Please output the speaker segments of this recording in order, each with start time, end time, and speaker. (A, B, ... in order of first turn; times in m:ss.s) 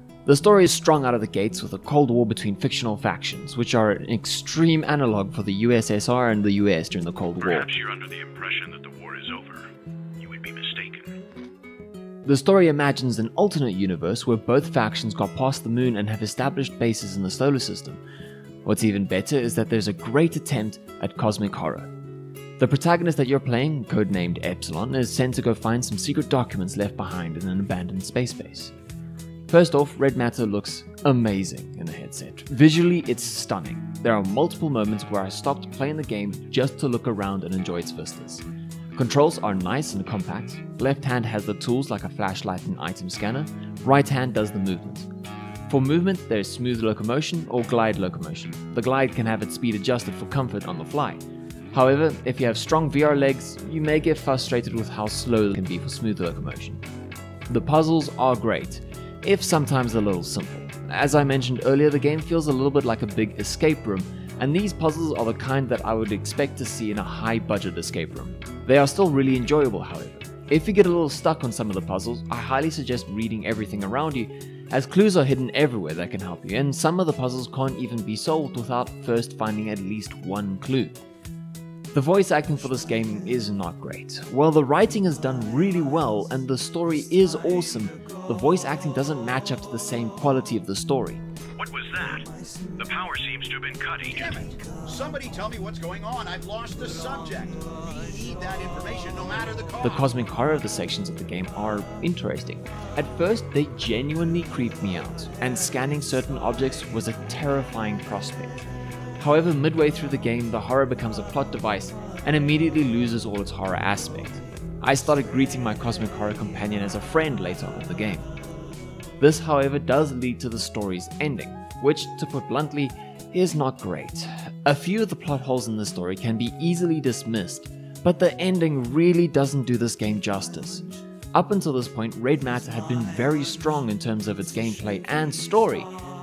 0:00.2-0:07.7 A
0:07.4-0:11.2 B
0:12.2-0:18.0 A
0:18.6-0:21.9 A
0:22.6-0:28.7 A
0:29.5-0:38.4 A
0:38.9-0:45.1 A
0:45.7-0:56.8 A
0:57.5-1:21.0 A
1:21.9-1:31.2 A
1:31.6-1:34.4 B
1:34.1-1:40.1 C
1:39.8-1:48.6 A
1:49.2-1:58.3 A
1:59.2-2:15.9 A